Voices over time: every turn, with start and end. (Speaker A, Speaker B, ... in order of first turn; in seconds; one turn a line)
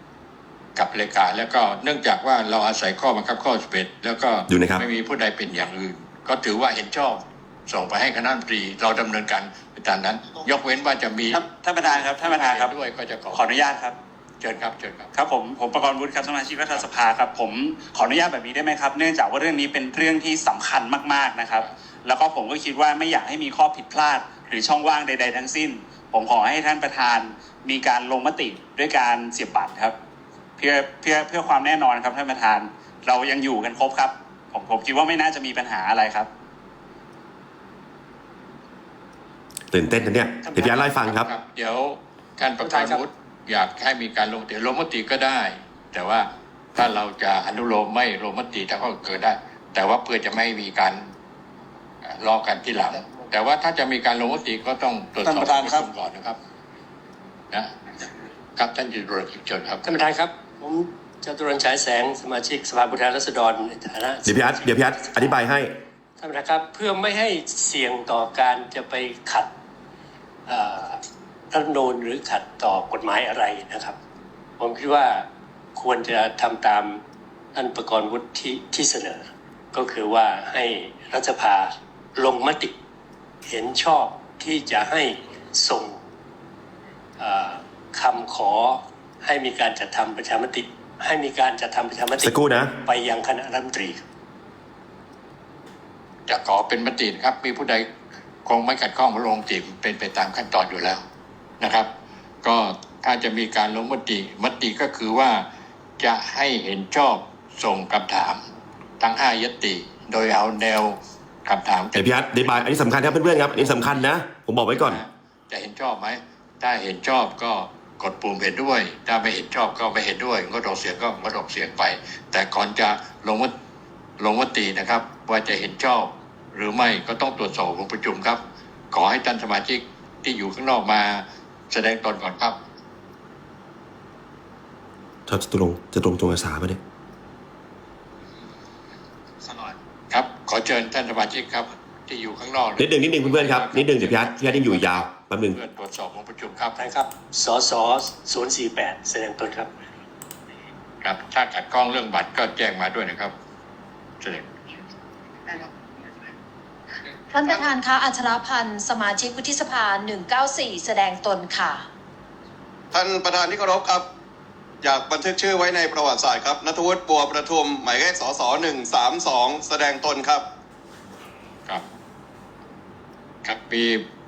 Speaker A: 0.8-13.6
Speaker B: 4.5-4.8
Speaker C: 11.3-12.7
Speaker C: 13.3-13.9
Speaker A: 14.4-15.1
Speaker C: 15.1-29.9
Speaker C: 30.6-36.3
Speaker B: 39.7-41.3
Speaker A: 40.5-51.1
Speaker A: 52.0-56.4
Speaker A: 58.5-59.8
Speaker D: 59.8-65.3
Speaker B: 64.2-65.7
Speaker D: 66.2-69.5
Speaker D: 70.5-74.0
Speaker D: 74.6-77.0
Speaker D: 77.5-82.8
Speaker D: 83.4-86.0
Speaker D: 87.2-94.0
Speaker B: 92.2-92.8
Speaker A: 96.3-97.9
Speaker A: 98.4-101.0
Speaker A: 101.6-101.9
Speaker A: 102.4-105.5
Speaker A: 106.0-108.4
Speaker A: 109.0-113.8
Speaker B: 111.9-115.0
Speaker A: 114.7-123.5
Speaker A: 124.2-128.4
Speaker A: 128.9-132.6
Speaker B: 135.3-136.8
Speaker A: 140.1-146.8
Speaker B: 142.8-145.6
Speaker D: 146.8-149.7
Speaker A: 151.0-153.3
Speaker A: 154.2-154.5
Speaker E: 157.3-161.8
Speaker F: 162.9-164.0
Speaker F: 164.8-170.4
Speaker A: 173.4-174.1